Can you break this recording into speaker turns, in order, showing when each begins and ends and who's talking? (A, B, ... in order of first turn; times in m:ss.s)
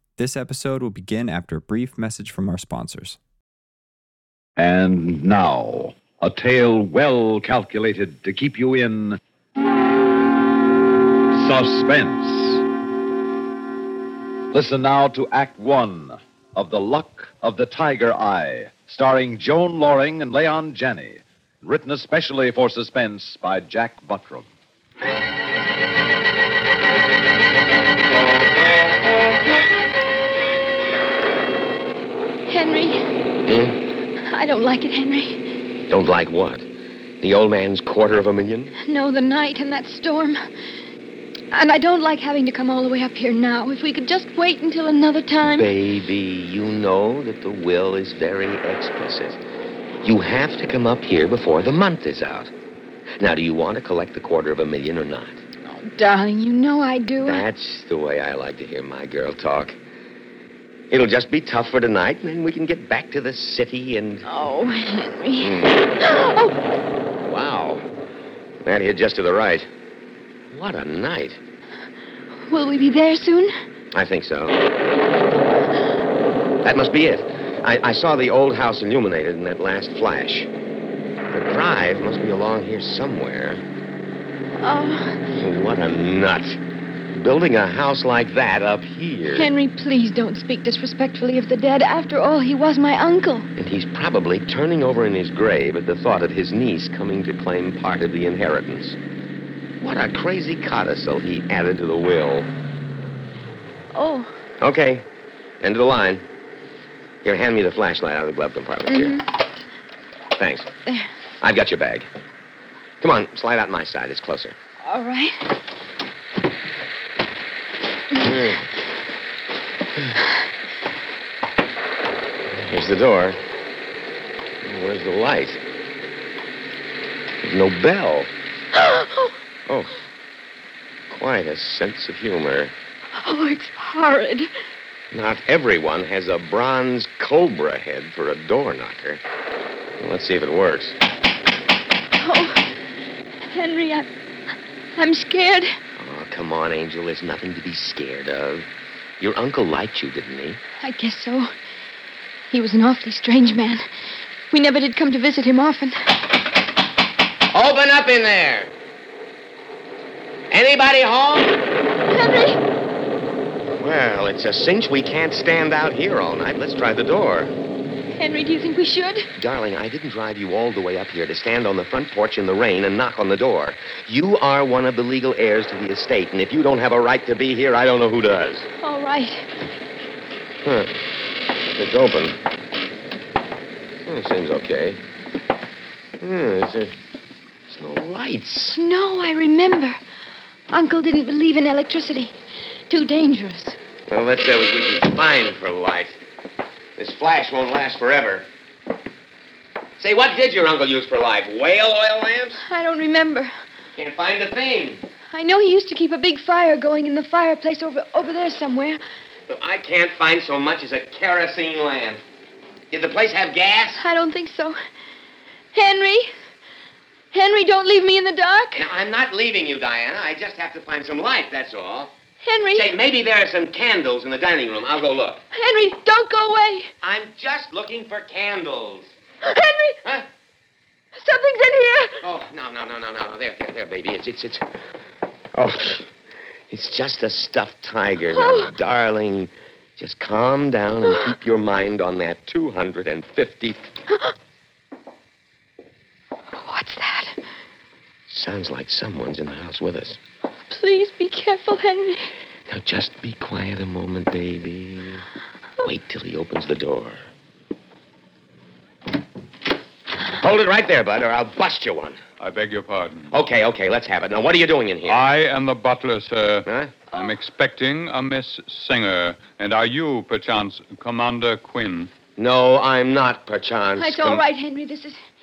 0:00.2-0:03.2 A
0:04.6-0:09.2 B
0:11.3-0:12.6 B
0:14.5-0:24.5 B
0:32.5-0:33.0 C
0:33.5-0:33.8 D
0:34.3-0:35.4 C
0:35.9-0:36.7 D
0:37.2-0:38.7 D
0:38.8-0:40.4 C
0:41.5-0:45.7 C
0:45.5-0:49.4 D
0:50.0-0:52.5 D
0:53.2-0:55.4 D
0:55.7-0:57.4 C
0:57.2-0:59.8 D
1:00.9-1:04.3 D
1:04.3-1:06.6 C
1:05.4-1:06.0 D
1:07.2-1:07.9 D
1:08.6-1:09.7 D
1:10.5-1:11.4 D
1:12.5-1:13.5 C
1:13.9-1:14.6 D
1:16.6-1:20.5 D
1:21.3-1:23.6 D
1:24.6-1:25.3 C
1:25.4-1:26.6 D
1:27.1-1:29.5 D
1:29.3-1:33.5 C
1:33.6-1:39.0 D
1:39.8-1:42.5 D
1:43.9-1:44.4 C
1:44.6-1:45.1 D
1:45.6-1:46.2 D
1:47.2-1:49.2 D
1:48.9-1:49.3 C
1:50.4-1:50.7 D
1:51.4-1:52.1 D
1:53.0-1:54.6 D
1:54.8-1:55.6 C
1:58.2-1:58.6 D
2:02.5-2:03.4 D
2:04.6-2:05.6 D
2:07.4-2:08.3 D
2:08.8-2:09.3 C
2:09.7-2:09.9 D
2:11.1-2:12.8 D
2:13.2-2:14.5 C
2:15.1-2:19.2 D
2:20.0-2:21.0 D
2:22.2-2:22.7 C
2:23.4-2:24.1 C
2:25.0-2:25.8 C
2:26.0-2:28.7 D
2:29.2-2:30.6 D
2:30.8-2:31.5 C
2:32.5-2:33.8 C
2:34.5-2:36.0 C
2:37.5-2:38.7 D
2:40.5-2:41.6 D
2:42.1-2:42.6 C
2:43.8-2:47.5 D
2:48.2-2:49.3 C
2:49.4-2:58.7 D
2:58.8-2:59.5 C
3:00.6-3:01.0 D
3:01.6-3:02.4 D
3:04.1-3:05.0 D
3:06.2-3:07.0 D
3:07.7-3:08.8 D
3:08.7-3:10.0 C
3:10.7-3:12.3 C
3:12.9-3:13.8 C
3:14.1-3:16.2 D
3:17.0-3:18.5 D
3:20.0-3:22.6 D
3:22.6-3:23.5 C
3:24.0-3:25.0 D
3:25.3-3:29.0 C
3:29.5-3:32.2 D
3:32.9-3:34.0 D
3:34.0-3:34.8 C
3:35.7-3:36.3 C
3:37.3-3:38.8 C
3:38.7-3:42.1 D
3:42.4-3:42.9 C
3:42.7-3:45.4 D
3:45.5-3:46.9 C
3:47.0-3:49.1 D
3:49.4-3:50.0 C
3:51.2-3:52.2 C
3:52.2-3:54.7 D
3:55.5-3:56.1 D
3:56.7-4:03.9 D
3:58.3-3:58.7 C
4:06.5-4:07.4 C
4:08.3-4:10.2 D
4:10.7-4:12.3 C
4:12.7-4:15.2 D
4:15.8-4:17.2 D
4:20.3-4:22.2 D
4:22.4-4:23.3 E
4:23.3-4:25.3 D
4:25.1-4:32.1 E
4:26.7-4:26.9 D
4:32.4-4:34.4 D
4:34.0-4:35.2 C